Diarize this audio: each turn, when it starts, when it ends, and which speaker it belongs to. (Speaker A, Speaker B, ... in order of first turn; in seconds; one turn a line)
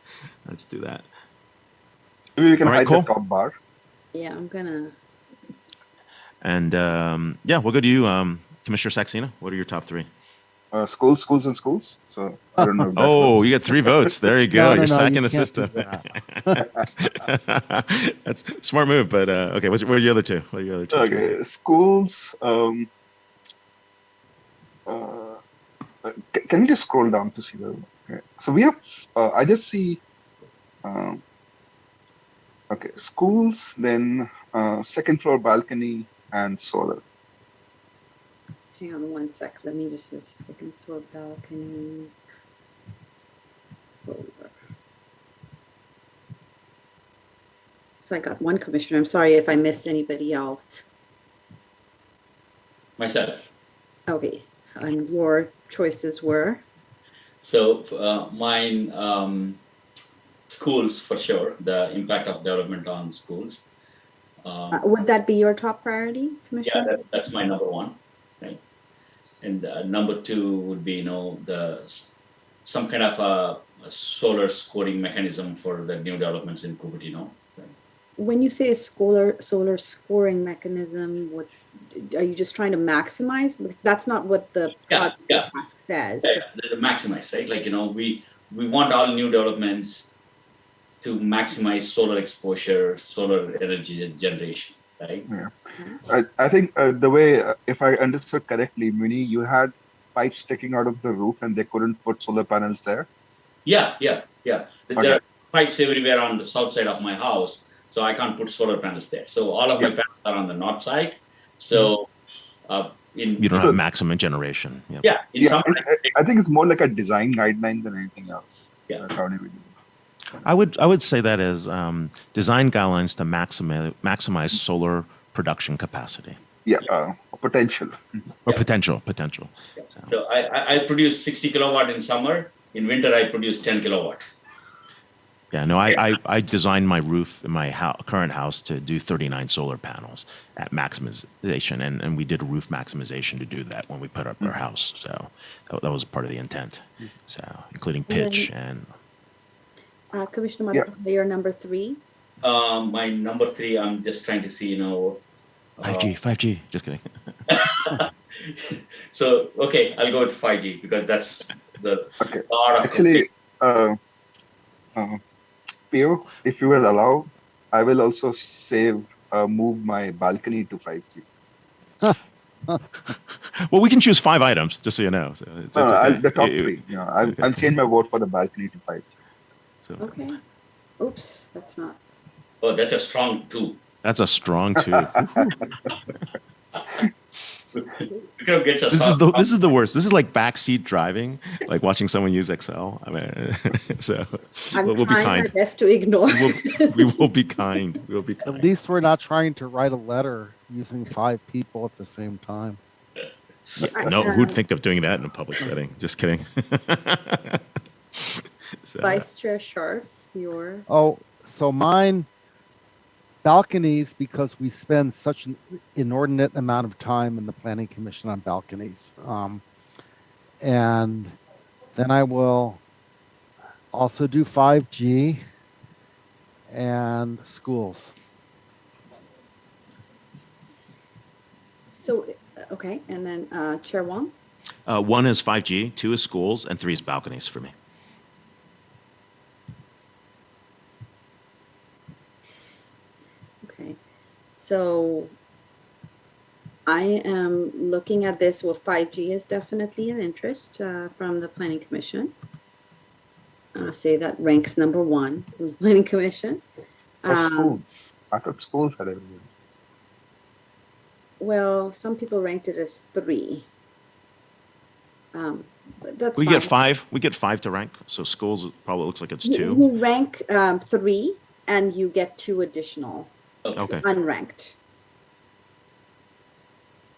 Speaker A: 0.5-1.1
Speaker B: 2.4-3.5
Speaker A: 2.6-3.1
Speaker C: 4.1-4.9
Speaker A: 6.4-10.1
Speaker B: 10.7-13.5
Speaker D: 12.6-12.9
Speaker A: 12.9-21.4
Speaker D: 14.5-16.6
Speaker B: 20.9-22.9
Speaker B: 24.9-25.4
Speaker B: 26.0-30.0
Speaker B: 30.8-31.2
Speaker B: 32.7-37.0
Speaker C: 38.8-42.1
Speaker C: 43.8-44.5
Speaker C: 48.0-50.8
Speaker E: 53.0-53.4
Speaker C: 54.1-56.6
Speaker E: 57.4-59.6
Speaker E: 60.5-63.7
Speaker E: 64.4-64.8
Speaker C: 64.7-66.9
Speaker E: 66.6-68.6
Speaker E: 69.4-72.1
Speaker E: 72.6-77.7
Speaker C: 78.2-86.4
Speaker E: 84.9-85.5
Speaker E: 86.2-90.1
Speaker E: 91.0-95.3
Speaker B: 95.3-95.5
Speaker B: 96.0-103.1
Speaker E: 103.6-112.1
Speaker E: 112.7-113.5
Speaker A: 113.4-115.1
Speaker E: 115.0-116.0
Speaker B: 115.4-119.7
Speaker A: 120.4-126.4
Speaker B: 126.6-128.0
Speaker A: 128.4-130.1
Speaker E: 129.8-134.2
Speaker A: 135.5-148.9
Speaker C: 148.1-148.5
Speaker C: 150.1-152.0
Speaker E: 152.4-155.2
Speaker E: 155.8-156.1
Speaker A: 155.8-157.1
Speaker E: 157.5-163.2
Speaker B: 162.2-164.0
Speaker B: 164.9-165.2
Speaker B: 165.9-171.2
Speaker D: 172.0-172.8
Speaker A: 173.6-177.7
Speaker B: 175.7-179.1
Speaker A: 179.8-180.1
Speaker C: 180.0-180.4
Speaker C: 181.0-182.0
Speaker E: 182.6-183.8
Speaker A: 184.0-185.5
Speaker B: 184.8-185.4
Speaker E: 187.8-189.6
Speaker A: 188.9-195.5
Speaker C: 194.7-197.2
Speaker A: 196.3-198.7
Speaker D: 198.4-202.8
Speaker A: 203.8-207.6
Speaker C: 203.9-204.6
Speaker A: 208.1-209.2
Speaker C: 209.0-210.8
Speaker D: 210.9-212.3
Speaker D: 213.4-219.6
Speaker D: 220.6-221.3
Speaker D: 221.9-222.8
Speaker D: 223.9-225.4
Speaker D: 226.7-228.1
Speaker C: 231.9-234.3
Speaker A: 234.8-237.7
Speaker C: 243.6-244.0
Speaker C: 244.5-245.3
Speaker C: 246.9-252.3
Speaker C: 253.7-256.6
Speaker C: 257.2-258.3
Speaker B: 257.3-259.5
Speaker C: 261.4-263.7
Speaker C: 265.3-266.7
Speaker A: 266.4-269.8
Speaker C: 269.4-273.3
Speaker A: 273.8-274.1
Speaker C: 273.9-274.8